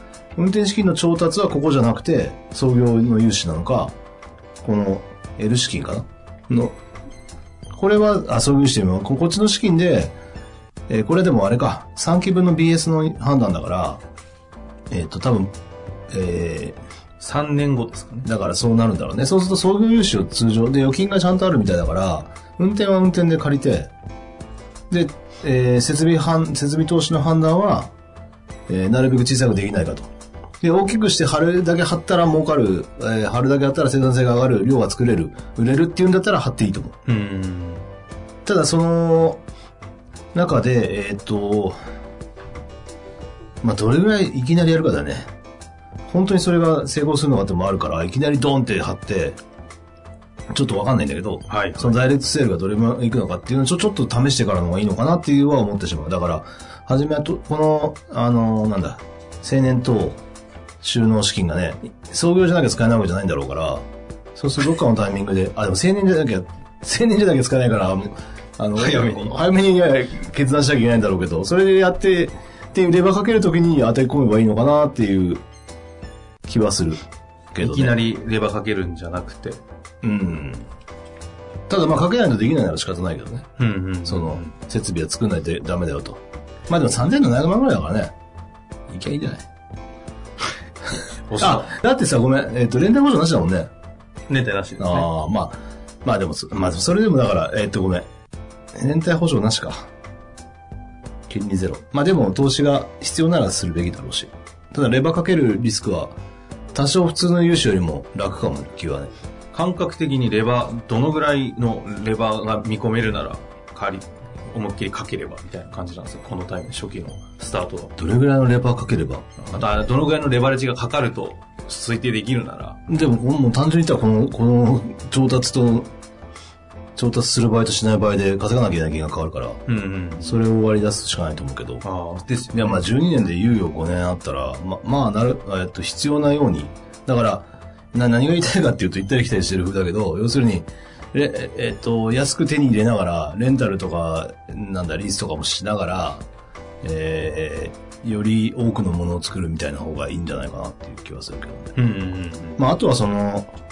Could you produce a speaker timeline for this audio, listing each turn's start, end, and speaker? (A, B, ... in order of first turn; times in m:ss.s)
0:00.4-0:03.9 A
0:04.6-0:06.8 A
0:07.7-0:10.2 A
0:10.9-0:14.0 A
0:14.9-0:15.5 A
0:16.1-0:16.8 A
0:17.2-0:18.3 B
0:18.2-0:23.9 A
0:24.9-0:27.9 A
0:28.7-0:30.1 A
0:30.6-0:37.0 A
0:37.1-0:37.8 B
0:38.5-0:39.4 A
0:40.3-0:41.8 A
0:43.6-0:45.3 A
0:46.1-0:49.4 A
0:50.5-1:00.2 A
0:51.5-0:52.0 B
1:00.8-1:15.4 A
1:08.8-1:09.4 B
1:16.5-1:17.0 A
1:17.5-1:18.0 A
1:17.6-1:19.6 B
1:20.0-1:20.7 A
1:21.7-1:23.5 A
1:23.6-1:24.5 B
1:24.1-1:28.1 A
1:28.9-1:29.5 A
1:31.3-1:31.7 B
1:31.4-1:33.7 A
1:34.3-1:35.1 B
1:34.8-1:38.1 A
1:38.7-1:39.9 A
1:41.3-1:46.2 A
1:46.7-1:49.1 A
1:49.5-1:57.9 B
1:58.0-1:59.6 A
1:59.4-2:02.8 B
2:02.9-2:05.9 A
2:07.0-2:09.6 A
2:09.7-2:10.4 B
2:10.2-2:11.8 A
2:11.8-2:12.8 B
2:12.5-2:26.2 A
2:26.8-2:31.8 A
2:31.8-2:32.6 B
2:32.6-2:33.5 A